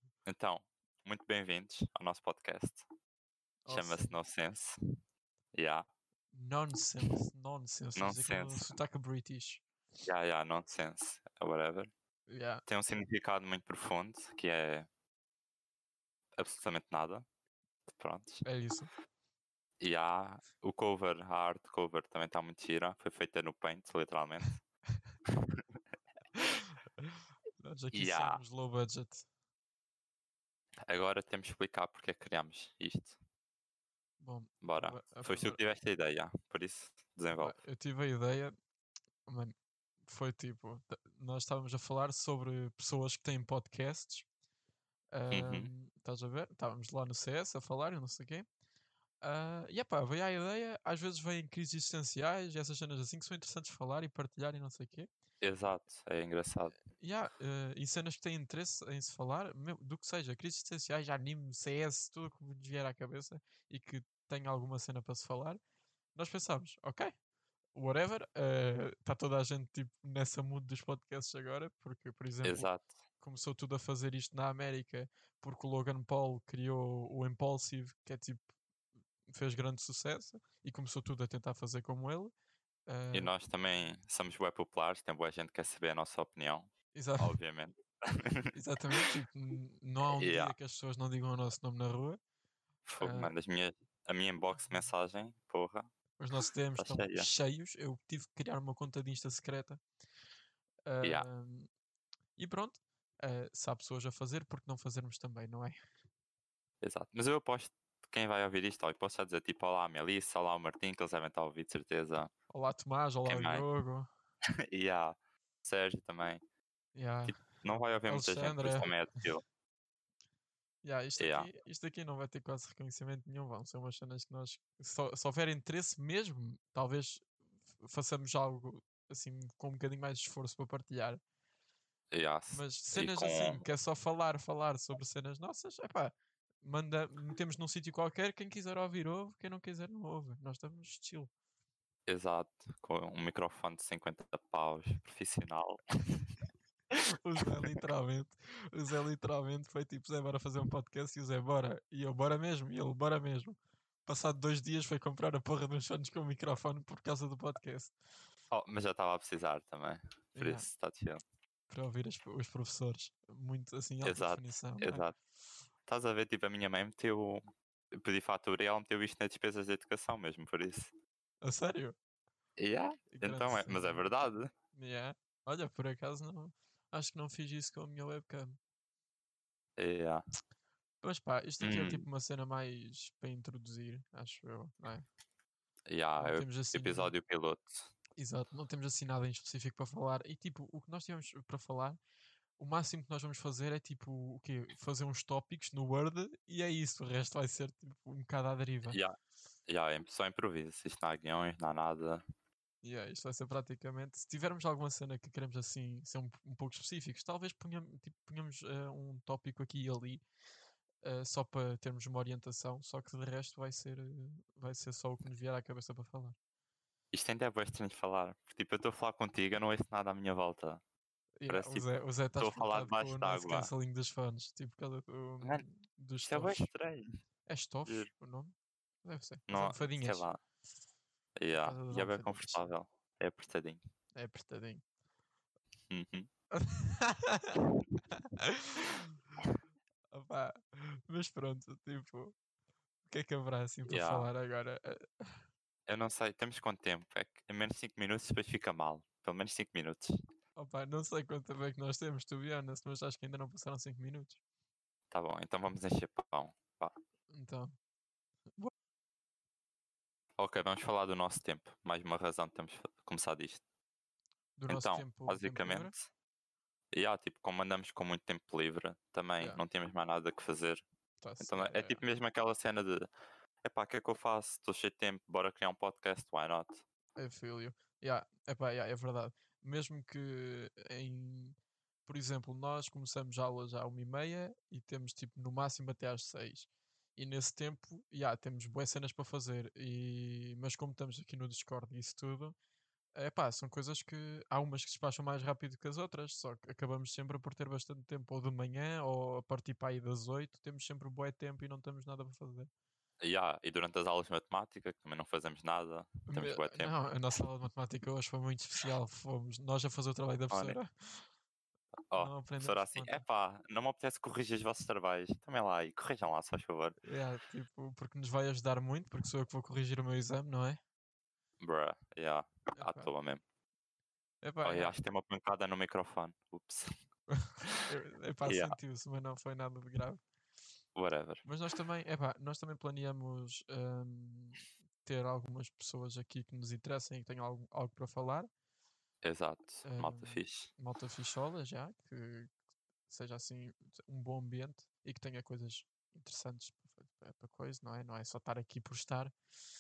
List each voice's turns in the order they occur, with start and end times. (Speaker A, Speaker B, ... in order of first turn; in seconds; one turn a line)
Speaker A: 0.2-2.8
Speaker B: 3.6-4.1
Speaker A: 3.7-4.8
Speaker A: 5.5-5.8
Speaker B: 6.3-9.6
Speaker A: 8.0-8.8
Speaker A: 10.1-11.9
Speaker B: 12.3-12.6
Speaker A: 12.7-14.9
Speaker A: 16.4-17.2
Speaker A: 17.9-18.4
Speaker B: 18.4-18.9
Speaker A: 19.8-24.6
Speaker B: 26.3-29.2
Speaker A: 27.9-28.4
Speaker A: 30.9-33.1
Speaker B: 34.2-35.6
Speaker A: 34.6-37.5
Speaker B: 37.3-38.5
Speaker B: 39.2-39.5
Speaker B: 40.1-44.2
Speaker B: 45.1-48.5
Speaker A: 45.3-45.7
Speaker B: 49.2-55.1
Speaker A: 55.4-56.8
Speaker B: 56.9-65.6
Speaker B: 66.1-67.1
Speaker B: 67.7-72.7
Speaker A: 72.4-72.9
Speaker B: 73.2-78.4
Speaker B: 79.3-82.3
Speaker B: 82.9-83.3
Speaker A: 83.1-88.5
Speaker B: 86.9-87.4
Speaker B: 88.5-92.2
Speaker A: 90.1-90.5
Speaker A: 92.8-95.9
Speaker B: 93.0-93.3
Speaker B: 96.2-99.8
Speaker A: 96.8-97.3
Speaker B: 100.9-101.7
Speaker B: 102.4-105.8
Speaker A: 106.8-112.3
Speaker B: 112.5-114.1
Speaker A: 113.2-113.7
Speaker A: 114.7-116.4
Speaker B: 116.9-117.4
Speaker A: 117.2-119.4
Speaker B: 118.1-118.9
Speaker B: 120.8-127.2
Speaker A: 121.2-121.5
Speaker B: 127.8-131.2
Speaker A: 132.1-133.6
Speaker B: 132.5-141.3
Speaker A: 142.1-145.8
Speaker B: 147.2-157.9
Speaker A: 158.5-161.2
Speaker B: 160.3-160.7
Speaker B: 161.7-165.1
Speaker A: 164.0-165.1
Speaker A: 165.9-170.9
Speaker B: 171.4-171.9
Speaker A: 172.6-174.5
Speaker B: 173.1-174.0
Speaker B: 174.7-178.6
Speaker A: 179.8-180.2
Speaker B: 181.0-185.0
Speaker A: 181.6-182.0
Speaker A: 185.9-187.9
Speaker B: 186.2-187.1
Speaker B: 188.2-192.0
Speaker B: 192.6-199.0
Speaker A: 199.7-202.2
Speaker B: 202.8-210.2
Speaker B: 211.0-216.3
Speaker A: 217.1-220.8
Speaker B: 221.4-226.7
Speaker A: 221.5-223.7
Speaker A: 226.2-227.1
Speaker B: 227.5-228.5
Speaker B: 229.0-230.2
Speaker A: 229.5-230.4
Speaker A: 231.3-233.8
Speaker B: 231.5-232.7
Speaker B: 234.2-234.8
Speaker A: 235.9-236.3
Speaker B: 236.5-237.6
Speaker B: 238.1-239.1
Speaker B: 240.1-242.3
Speaker B: 243.1-245.4
Speaker A: 243.8-244.3
Speaker A: 245.9-250.1
Speaker B: 250.6-254.4
Speaker A: 255.1-256.9
Speaker B: 257.3-257.7
Speaker A: 260.4-263.6
Speaker B: 264.6-265.9
Speaker A: 264.7-266.1
Speaker A: 266.9-270.8
Speaker B: 271.2-272.0
Speaker A: 271.4-273.1
Speaker A: 273.6-276.8
Speaker B: 277.2-292.6
Speaker B: 293.1-302.7
Speaker A: 303.2-306.9
Speaker B: 306.3-311.2
Speaker A: 310.5-310.8
Speaker A: 312.1-317.0
Speaker B: 312.1-313.2
Speaker B: 317.0-320.8
Speaker A: 321.6-323.4
Speaker B: 322.8-323.1
Speaker B: 324.4-325.0
Speaker A: 324.6-326.9
Speaker B: 327.3-330.2
Speaker A: 328.4-328.8
Speaker A: 330.9-331.4
Speaker B: 331.4-338.5
Speaker A: 339.2-340.7
Speaker B: 339.8-342.5
Speaker B: 343.1-349.3